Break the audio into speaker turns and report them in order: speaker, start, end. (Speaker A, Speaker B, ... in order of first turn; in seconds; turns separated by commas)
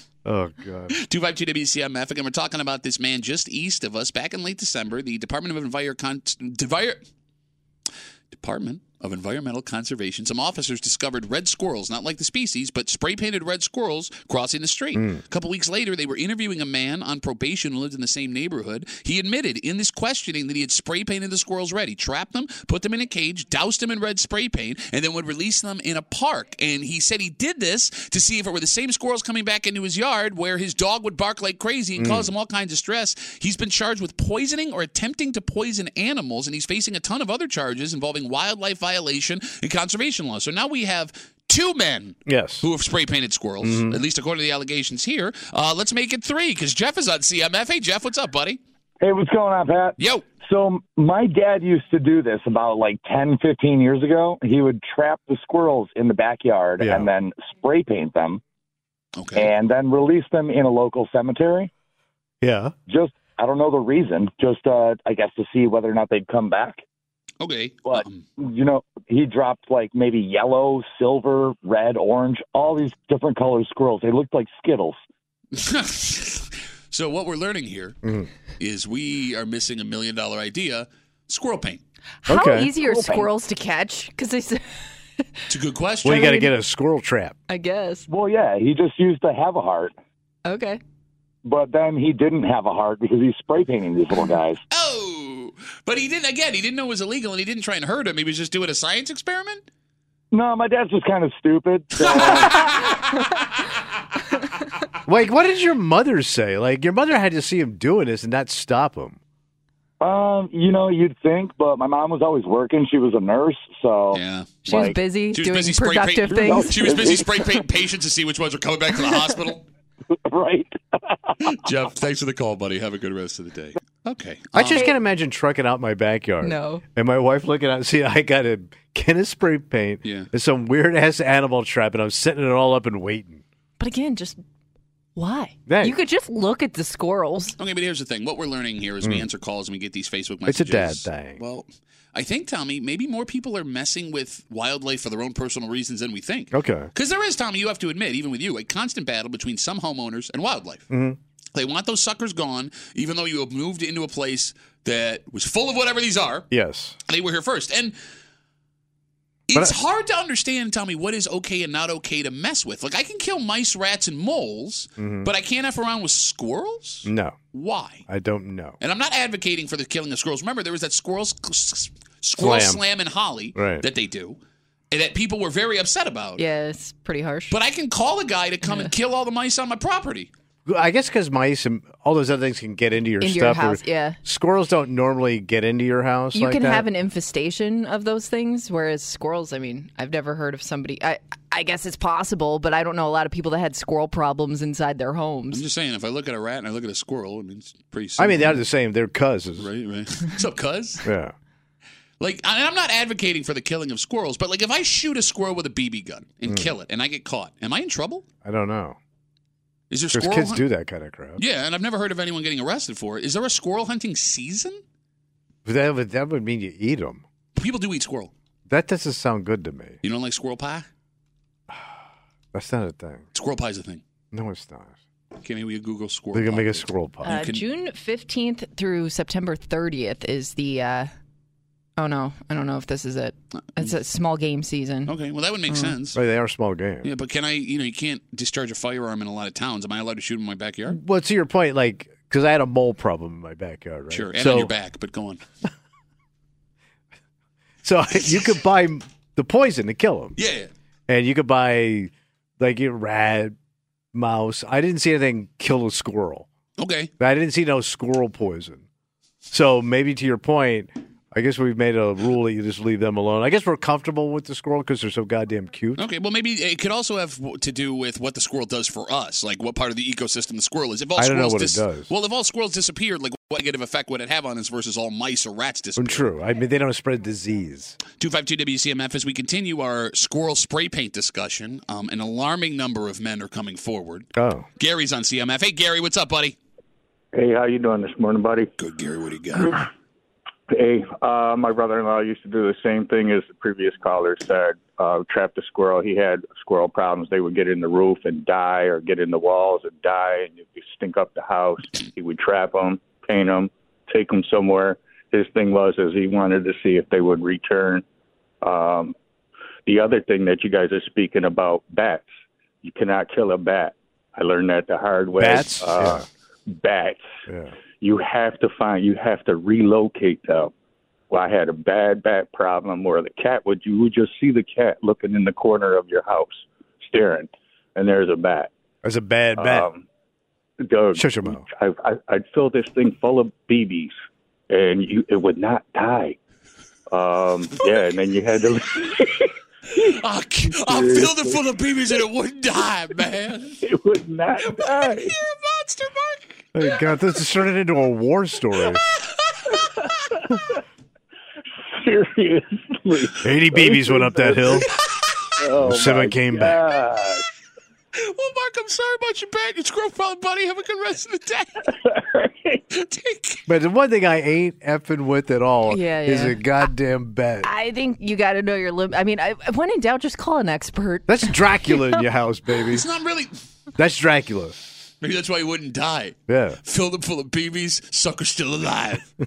Speaker A: 0.2-1.0, Speaker B: 0.9-7.0, Speaker B: 8.3-48.6, Speaker A: 14.9-15.2, Speaker A: 32.0-32.3, Speaker A: 42.3-42.7, Speaker A: 43.6-44.0, Speaker C: 49.0-58.4, Speaker B: 50.0-50.2, Speaker A: 56.8-57.1, Speaker B: 59.2-59.5, Speaker C: 59.4-61.7, Speaker A: 62.4-62.7, Speaker C: 62.9-66.8, Speaker B: 67.4-68.2, Speaker C: 67.9-75.0, Speaker B: 75.5-78.0, Speaker A: 78.0-78.3, Speaker B: 78.6-81.8, Speaker D: 82.3-85.2, Speaker A: 82.3-82.7, Speaker C: 82.8-83.3, Speaker B: 85.5-86.3, Speaker A: 86.0-87.4, Speaker D: 86.0-86.5, Speaker D: 87.5-88.1, Speaker C: 88.1-90.0, Speaker D: 90.5-90.8, Speaker C: 91.4-94.6, Speaker B: 94.7-99.6, Speaker C: 100.3-103.0, Speaker B: 102.0-103.4, Speaker A: 105.1-109.2, Speaker C: 110.0-115.0, Speaker B: 114.1-119.6, Speaker D: 114.7-117.2, Speaker C: 116.3-117.4, Speaker C: 120.1-121.3, Speaker B: 121.5-124.8, Speaker A: 124.5-133.4, Speaker D: 126.4-126.8, Speaker D: 133.8-134.4, Speaker D: 135.2-137.6, Speaker A: 135.7-136.0, Speaker B: 137.6-150.9, Speaker A: 140.5-141.4, Speaker A: 146.5-146.9, Speaker A: 150.9-151.2, Speaker B: 151.6-156.5, Speaker A: 156.5-157.0, Speaker B: 157.1-157.9, Speaker B: 159.5-168.0, Speaker A: 165.0-165.3, Speaker A: 167.1-167.4, Speaker A: 168.1-168.8, Speaker B: 168.8-174.4, Speaker A: 172.4-172.8, Speaker A: 173.6-173.8, Speaker B: 174.9-176.4, Speaker D: 176.4-177.6, Speaker B: 177.5-180.3, Speaker D: 178.7-178.9, Speaker A: 180.7-186.9, Speaker D: 183.2-184.2, Speaker D: 186.3-195.6, Speaker B: 195.5-198.6, Speaker A: 198.2-199.7, Speaker B: 199.6-201.1, Speaker A: 201.0-201.3, Speaker B: 202.2-208.2, Speaker A: 206.5-206.7, Speaker A: 208.4-209.0, Speaker B: 209.9-210.7, Speaker A: 210.1-211.4, Speaker B: 211.4-214.8, Speaker A: 215.7-217.2, Speaker B: 217.6-218.3, Speaker A: 218.7-220.0, Speaker B: 220.0-220.9, Speaker A: 222.5-223.2, Speaker B: 223.3-224.0, Speaker A: 224.3-224.9, Speaker B: 225.4-227.6, Speaker A: 226.3-227.4, Speaker D: 227.2-231.1, Speaker D: 232.0-235.1, Speaker B: 235.1-236.2, Speaker A: 236.1-237.1, Speaker B: 237.0-241.0, Speaker A: 240.9-244.7, Speaker B: 244.1-245.4, Speaker A: 247.8-250.3, Speaker B: 250.4-250.7, Speaker A: 251.1-253.6, Speaker A: 254.1-256.5, Speaker B: 256.8-257.1, Speaker A: 257.2-258.8, Speaker A: 259.5-266.0, Speaker B: 266.0-276.3, Speaker A: 271.2-272.1, Speaker A: 276.0-278.0, Speaker B: 278.2-286.6, Speaker A: 284.4-284.7, Speaker E: 287.3-288.7, Speaker B: 288.8-289.9, Speaker E: 290.7-308.0, Speaker E: 308.6-309.1, Speaker E: 309.9-312.3, Speaker E: 312.8-317.2, Speaker A: 315.4-316.3, Speaker A: 317.5-317.7, Speaker E: 318.0-320.7, Speaker E: 321.3-328.7, Speaker A: 329.0-329.9, Speaker E: 329.6-330.0, Speaker E: 330.8-334.1, Speaker A: 331.1-331.6, Speaker E: 334.7-336.4, Speaker E: 337.1-340.1, Speaker B: 340.0-343.8, Speaker E: 340.7-341.6, Speaker E: 343.8-345.3, Speaker B: 344.6-346.9, Speaker A: 346.8-349.0, Speaker B: 348.9-350.1, Speaker E: 349.7-350.8, Speaker E: 352.0-354.9, Speaker A: 353.4-354.9, Speaker B: 354.9-355.5, Speaker E: 355.6-357.4, Speaker A: 355.8-356.8, Speaker B: 358.1-361.9, Speaker E: 362.0-362.8, Speaker B: 362.9-363.6, Speaker A: 363.7-367.7, Speaker D: 365.9-366.6, Speaker D: 367.6-372.2, Speaker A: 371.3-373.1, Speaker B: 372.9-373.5, Speaker A: 374.0-374.8, Speaker B: 375.2-379.3, Speaker A: 376.5-376.8